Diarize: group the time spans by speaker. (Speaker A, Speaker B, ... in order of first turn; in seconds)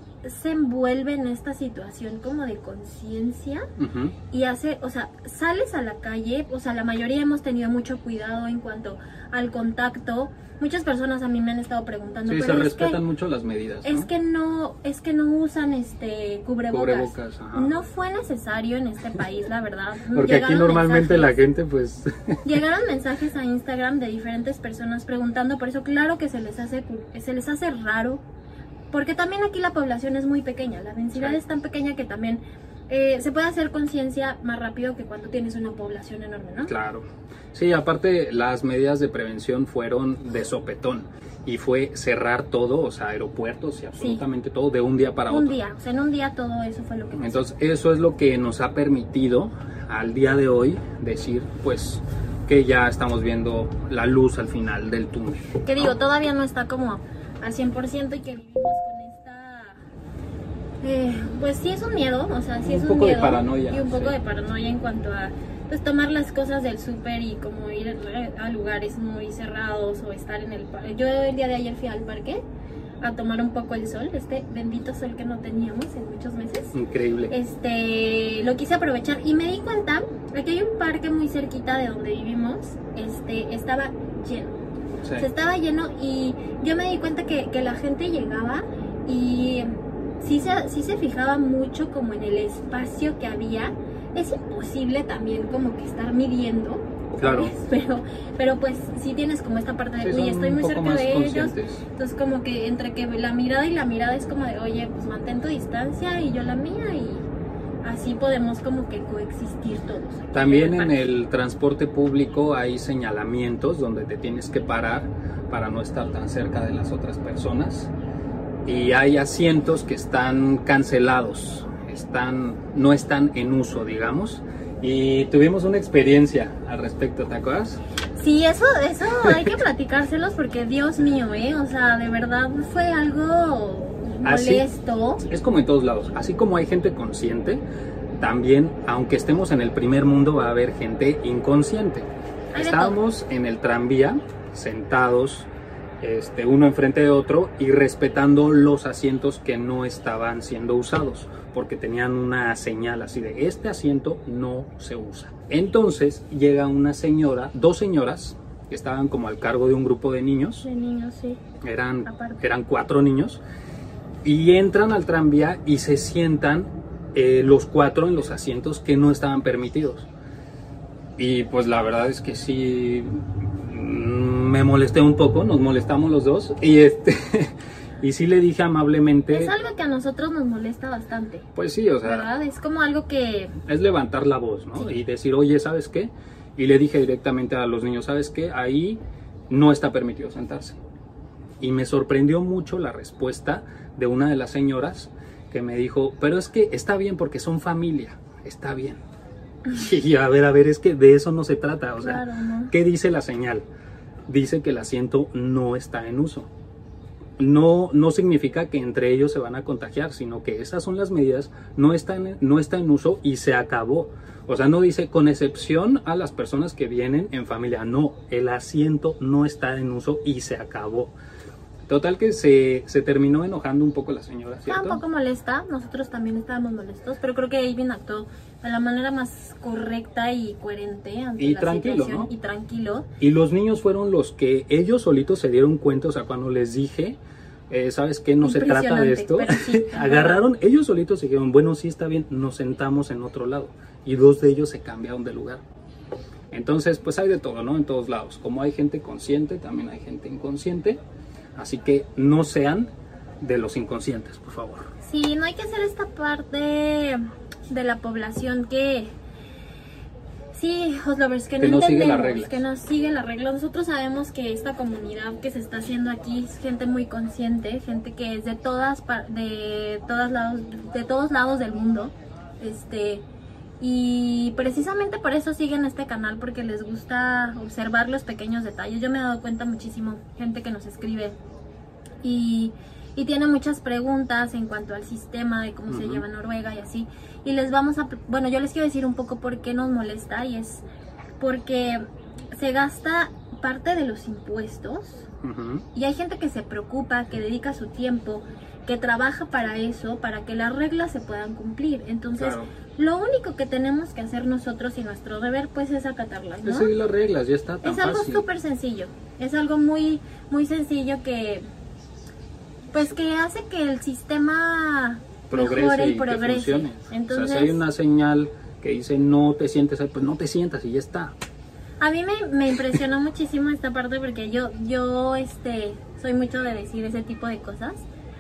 Speaker A: 0.2-3.7, 4.3-13.0, 13.8-21.4, 22.4-28.2, 28.9-36.7, 45.3-47.5, 55.6-59.8, 60.8-72.4, 73.0-76.8, 77.3-84.5, 85.2-107.3, 107.8-111.0, 128.2-135.2, 142.5-143.0, 160.6-161.4, 162.1-162.4, 179.3-181.5, 182.0-183.6, 202.0-202.7, 224.7-233.1, 238.4-240.4, 255.0-259.1, 260.5-273.2, 273.8-281.4, 282.2-290.8, 291.4-292.0, 292.5-295.3, 295.9-306.9, 307.8-311.6, 312.9-317.8, 322.0-328.1
Speaker B: 3.8-4.2, 12.3-14.1, 16.7-17.8, 20.1-22.4, 36.6-45.6, 47.1-56.0, 62.6-64.2, 76.7-77.3, 85.0-85.3, 97.2-97.5, 100.0-101.8, 110.3-117.9, 118.7-127.8, 134.2-134.7, 135.3-137.6, 138.2-145.5, 146.0-160.7, 161.6-163.4, 164.2-170.1, 171.2-179.5, 181.6-182.3, 183.6-190.8, 191.6-199.0, 199.7-203.7, 204.3-206.5, 207.4-221.1, 221.9-225.0, 231.4-232.3, 233.2-245.6, 246.5-251.0, 251.6-254.9, 261.6-262.6, 285.9-286.2, 295.4-295.9, 302.4-302.7, 306.6-308.4, 315.5-321.3